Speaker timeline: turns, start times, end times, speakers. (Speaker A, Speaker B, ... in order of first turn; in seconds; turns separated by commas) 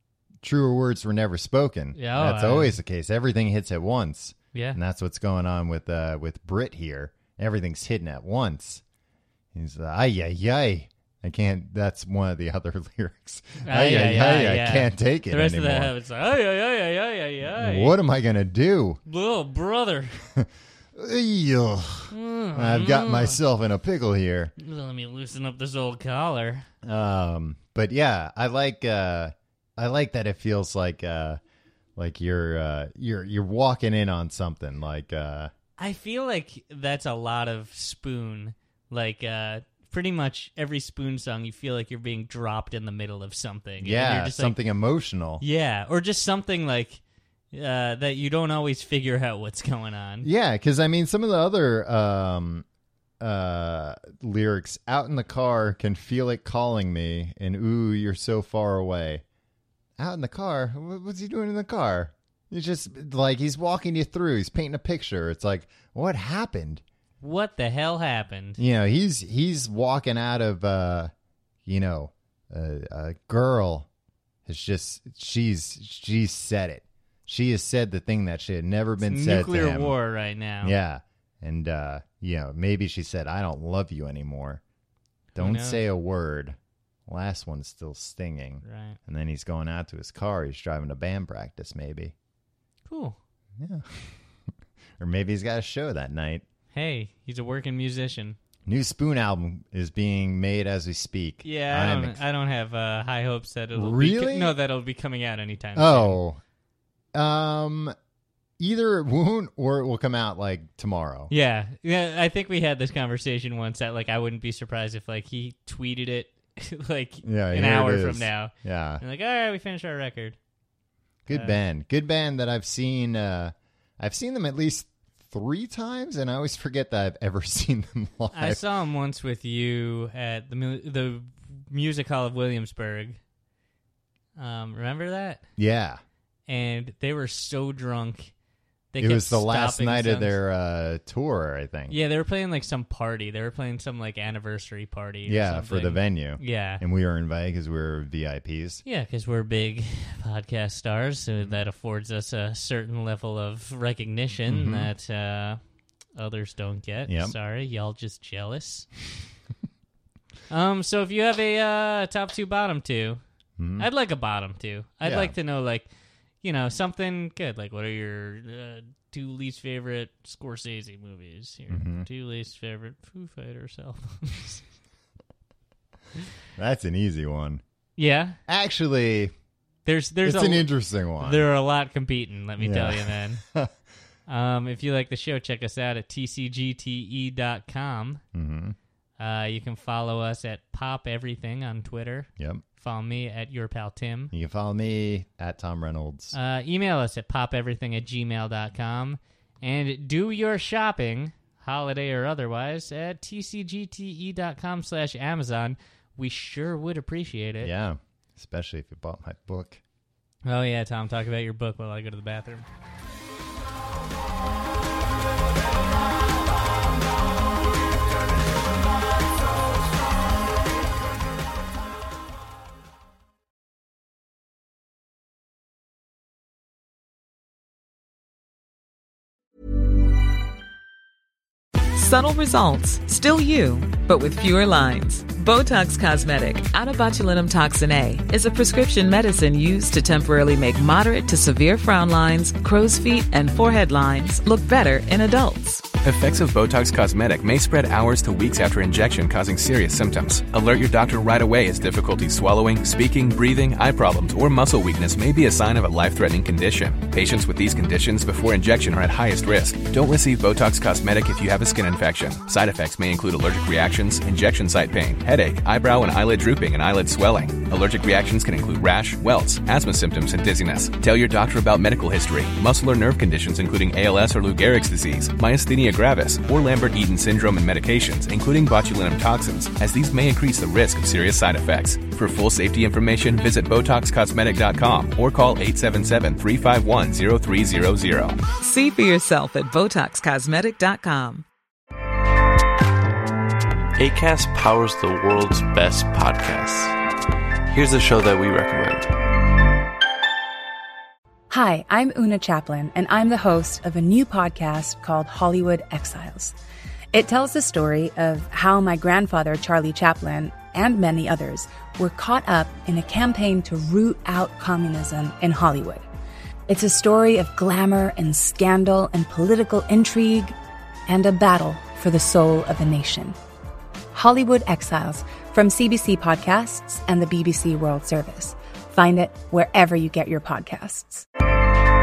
Speaker A: 0.4-8.8, Speaker B: 1.9-2.8, Speaker A: 9.5-15.9, Speaker B: 13.6-17.9, Speaker A: 17.4-19.0, Speaker B: 19.1-20.2, Speaker A: 20.4-24.5, Speaker B: 22.1-23.4, Speaker B: 24.6-26.6, Speaker A: 26.8-31.4, Speaker A: 31.9-35.5, Speaker B: 35.8-44.5, Speaker A: 43.8-45.4, Speaker B: 45.4-47.0, Speaker B: 47.5-50.3, Speaker A: 50.2-52.6, Speaker A: 53.2-59.2, Speaker A: 60.0-66.8, Speaker B: 67.2-68.6, Speaker A: 68.6-71.1, Speaker A: 71.6-73.9, Speaker A: 74.5-80.0, Speaker B: 79.0-80.7, Speaker A: 80.6-84.6, Speaker B: 85.3-85.8, Speaker A: 85.3-92.1, Speaker B: 88.6-89.0, Speaker B: 92.9-93.2, Speaker A: 93.6-94.2, Speaker A: 95.0-96.4, Speaker B: 96.7-98.4, Speaker A: 98.7-102.2, Speaker B: 101.4-106.2, Speaker A: 103.7-104.5, Speaker A: 105.8-106.4, Speaker A: 107.1-107.9, Speaker A: 108.6-111.3, Speaker B: 111.3-120.4, Speaker A: 117.2-119.0, Speaker A: 121.2-128.6, Speaker B: 121.3-121.5, Speaker B: 128.3-133.2, Speaker B: 134.4-135.4, Speaker A: 135.6-136.0, Speaker B: 136.5-138.3, Speaker B: 138.9-140.3, Speaker A: 139.0-142.0, Speaker B: 141.9-146.8, Speaker A: 145.2-148.8, Speaker B: 148.8-155.6, Speaker A: 154.5-154.9, Speaker B: 156.2-158.9, Speaker A: 157.1-157.3, Speaker B: 160.5-163.2, Speaker A: 163.6-163.9, Speaker B: 163.8-165.9, Speaker A: 165.0-165.3, Speaker B: 166.4-174.6, Speaker A: 171.7-172.1, Speaker A: 176.6-177.6, Speaker B: 178.0-178.4, Speaker A: 178.5-179.3, Speaker B: 179.8-180.7, Speaker A: 180.2-181.4, Speaker B: 181.2-183.4, Speaker A: 182.6-183.7, Speaker B: 184.3-188.2, Speaker A: 188.3-188.8, Speaker B: 189.2-194.3, Speaker A: 194.3-196.3, Speaker B: 196.3-207.7, Speaker A: 207.6-209.8, Speaker B: 210.4-212.7, Speaker C: 231.9-245.9, Speaker D: 246.0-288.4, Speaker C: 288.6-291.4, Speaker E: 293.9-296.9, Speaker E: 297.7-299.1, Speaker F: 301.5-306.5, Speaker F: 307.1-316.1, Speaker F: 316.7-320.6, Speaker F: 321.1-323.4, Speaker F: 324.1-331.2